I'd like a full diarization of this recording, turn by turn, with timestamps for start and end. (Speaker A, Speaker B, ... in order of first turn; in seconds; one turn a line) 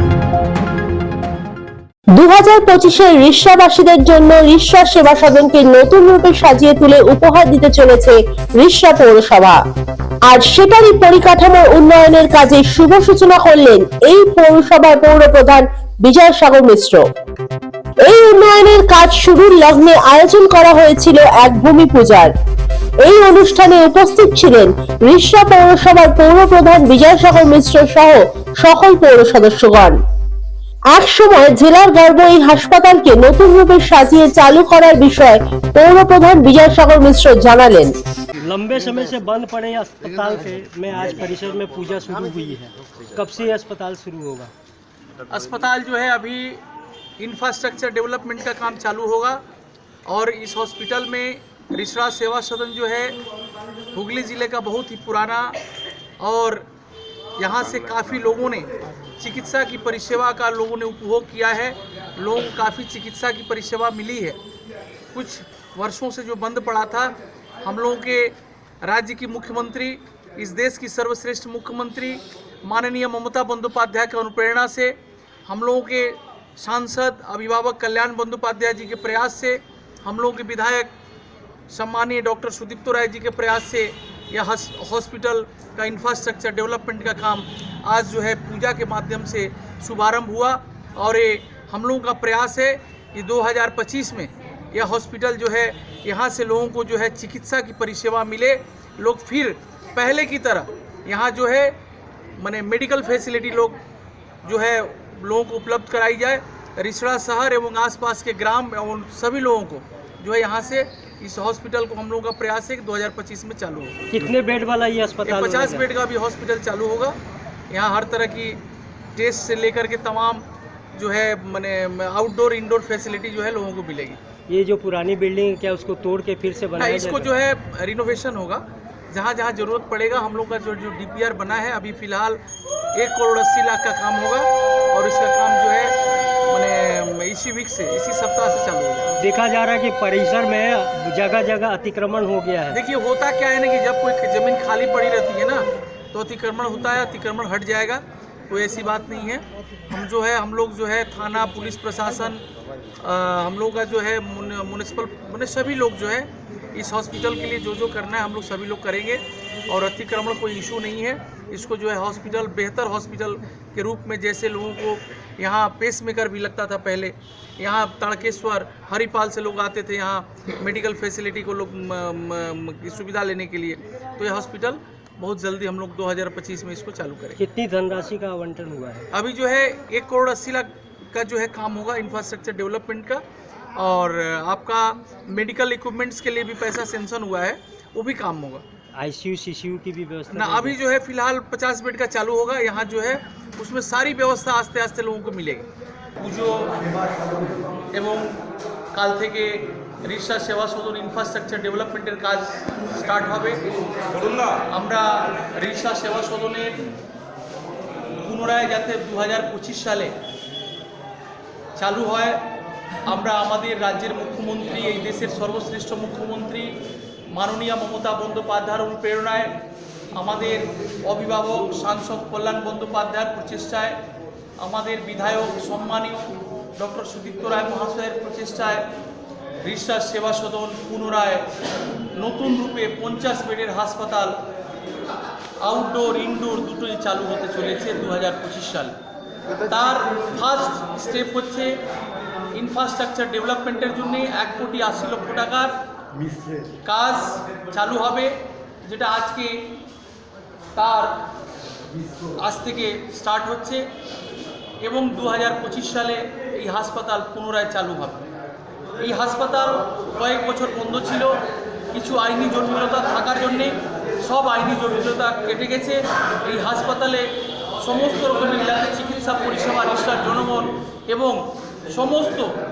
Speaker A: 2.1-9.6
Speaker A: 10.3-17.1
Speaker A: 18.0-22.3
Speaker A: 23.0-30.0
Speaker A: 30.9-38.0
Speaker B: 38.4-44.5
Speaker C: 45.3-46.6
Speaker C: 47.2-49.4
Speaker C: 50.1-53.2
Speaker C: 53.9-55.6
Speaker C: 56.2-56.6
Speaker C: 57.4-64.4
Speaker C: 65.1-80.9
Speaker C: 81.7-101.8
Speaker C: 102.4-103.8
Speaker C: 104.4-114.0
Speaker B: 114.1-115.9
Speaker C: 115.2-117.2
Speaker C: 117.7-118.6
Speaker C: 119.2-124.2
Speaker B: 124.5-127.3
Speaker C: 126.8-132.4
Speaker C: 132.9-136.0
Speaker C: 136.5-139.2
Speaker B: 139.2-142.8
Speaker C: 142.7-152.4
Speaker C: 153.0-177.4
Speaker B: 177.4-179.1
Speaker C: 179.1-183.2
Speaker C: 183.8-188.6
Speaker B: 189.0-190.8
Speaker C: 190.3-196.8
Speaker C: 197.9-198.4
Speaker C: 198.9-203.6
Speaker C: 204.4-206.8
Speaker C: 208.2-210.2
Speaker C: 211.8-212.4
Speaker C: 213.1-216.8
Speaker C: 217.3-219.6
Speaker C: 220.1-224.0
Speaker C: 224.6-228.8
Speaker C: 229.6-231.5
Speaker C: 232.1-234.3
Speaker C: 235.6-238.9
Speaker C: 239.7-241.8
Speaker C: 242.5-245.7
Speaker C: 246.8-249.7
Speaker C: 250.8-251.2
Speaker C: 252.4-253.9
Speaker C: 254.8-258.3
Speaker C: 259.0-261.4
Speaker C: 261.9-272.6